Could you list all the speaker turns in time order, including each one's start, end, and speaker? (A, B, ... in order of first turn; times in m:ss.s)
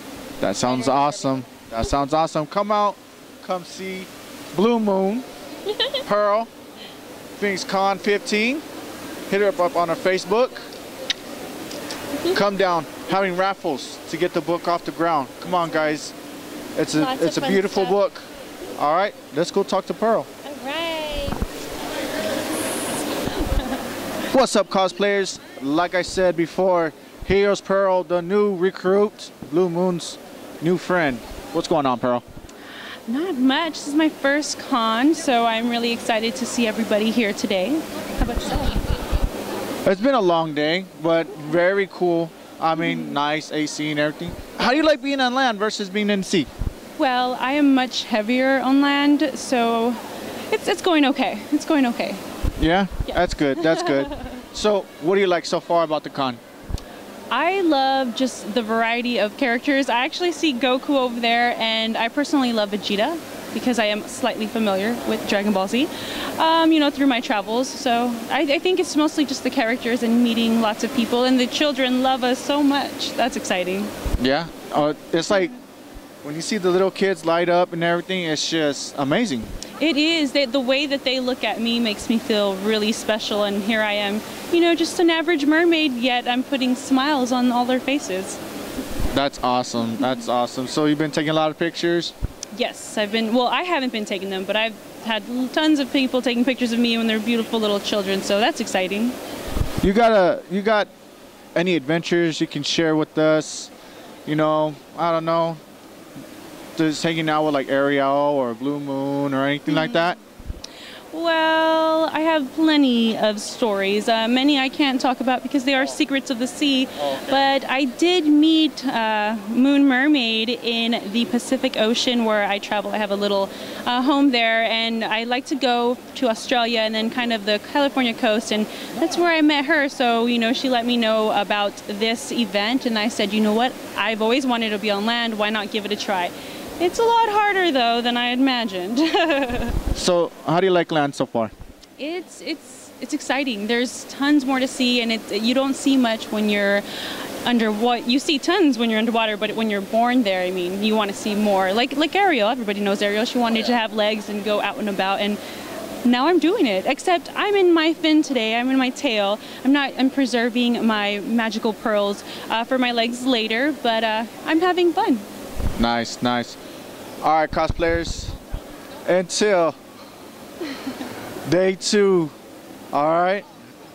0:00.4-0:05.2 A
0:06.0-0:06.5 A
0:07.4-0:08.6 A
0:09.3-0:10.7 A
0:12.3-0:16.1 A
0:15.7-0:15.9 B
0:16.8-0:20.3 A
0:17.0-0:18.1 B
0:20.4-0:21.4 B
0:24.3-0:32.2 A
0:33.1-0:38.8 C
0:39.8-0:46.5 A
0:42.8-0:43.2 C
0:47.0-0:52.2 C
0:52.6-0:56.4 A
0:53.0-0:54.3 C
0:57.3-1:13.9 C
1:14.2-1:15.5 A
1:16.2-1:19.5 A
1:19.8-1:28.4 C
1:29.1-1:32.1 A
1:32.5-1:39.2 C
1:39.8-1:40.9 A
1:41.5-1:43.7 A
1:44.2-1:45.6 A
1:46.8-1:50.2 A
1:49.7-1:50.1 C
1:51.1-2:19.7 C
2:19.9-2:21.5 A
2:22.0-2:26.8 C
2:27.4-2:35.4 C
2:36.0-2:45.3 C
2:45.8-2:46.6 A
2:47.2-2:48.4 A
2:49.0-2:49.8 A
2:51.4-2:52.3 A
2:52.9-2:53.4 A